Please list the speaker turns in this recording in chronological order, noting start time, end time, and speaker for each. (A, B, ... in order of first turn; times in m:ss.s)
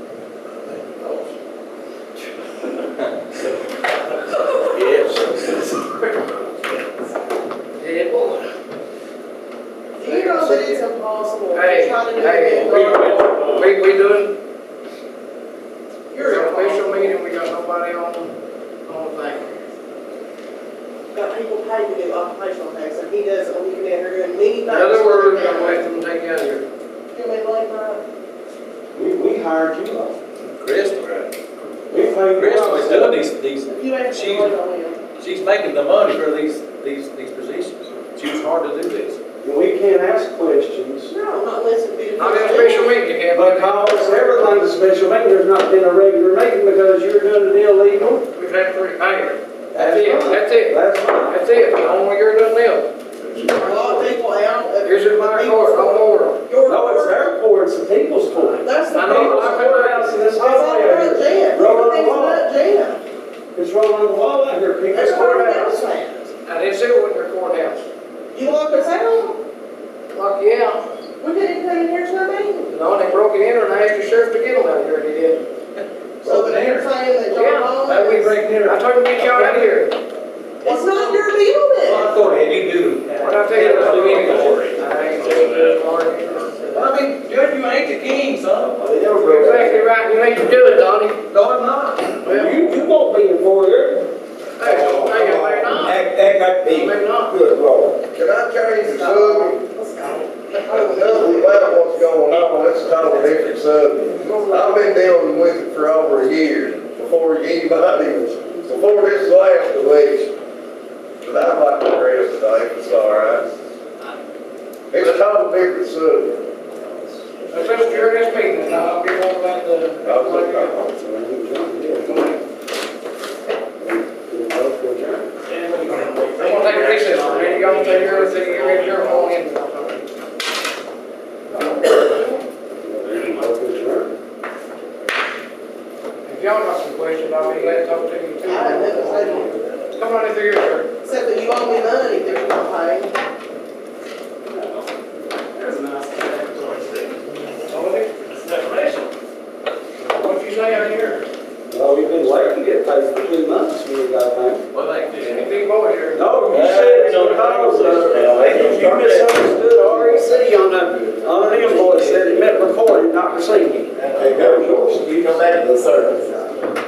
0:04.7-0:05.4 A
0:07.8-0:08.5 B
0:10.0-0:13.4 C
0:10.0-0:10.8 B
0:11.5-0:14.4 B
0:12.5-0:13.6 A
0:16.1-0:17.1 C
0:16.2-0:18.3 B
0:18.9-0:19.6 B
0:21.1-0:25.8 C
0:24.6-0:26.6 B
0:27.1-0:28.0 C
0:28.9-0:30.2 D
0:30.5-0:31.3 A
0:31.9-0:33.2 D
0:32.3-0:34.6 A
0:33.7-0:35.0 C
0:35.2-0:39.2 A
0:39.4-0:41.1 D
0:41.1-0:42.9 C
0:42.2-0:44.5 B
0:43.3-0:48.3 D
0:48.3-0:52.9 B
0:49.7-0:51.8 D
0:53.4-0:57.3 C
0:54.8-0:56.4 B
0:56.6-1:02.5 D
0:58.6-1:03.0 C
0:58.9-1:00.2 B
1:03.5-1:05.7 D
1:04.9-1:06.3 C
1:06.4-1:07.9 B
1:08.3-1:09.4 C
1:10.1-1:10.8 B
1:11.2-1:12.7 C
1:12.7-1:15.4 B
1:16.2-1:16.9 A
1:16.2-1:18.4 C
1:17.3-1:17.8 B
1:17.8-1:19.7 A
1:18.6-1:20.0 B
1:20.6-1:22.2 C
1:20.6-1:21.3 A
1:21.8-1:24.8 A
1:23.2-1:26.9 B
1:23.3-1:24.6 D
1:26.7-1:28.9 A
1:28.9-1:29.7 D
1:29.2-1:31.2 B
1:31.3-1:32.2 A
1:32.2-1:32.7 B
1:32.2-1:38.0 D
1:34.6-1:36.1 B
1:36.6-1:37.4 B
1:38.1-1:39.7 E
1:38.8-1:42.1 C
1:40.7-1:50.4 E
1:44.2-1:45.0 C
1:51.2-1:53.5 E
1:54.9-1:56.5 E
1:57.5-2:00.9 B
2:00.0-2:00.8 E
2:00.8-2:02.3 D
2:01.9-2:02.4 B
2:03.8-2:05.3 D
2:05.5-2:08.8 A
2:06.3-2:10.0 B
2:11.5-2:12.0 D
2:12.8-2:14.2 D
2:16.2-2:20.9 B
2:18.4-2:19.8 C
2:21.0-2:23.1 C
2:24.5-2:24.8 D
2:25.6-2:26.4 B
2:27.6-2:28.9 B
2:30.1-2:31.2 B
2:31.7-2:34.6 D
2:34.7-2:35.5 A
2:35.2-2:36.2 B
2:36.1-2:45.2 D
2:36.5-2:39.4 F
2:38.2-2:39.0 A
2:44.0-2:46.4 F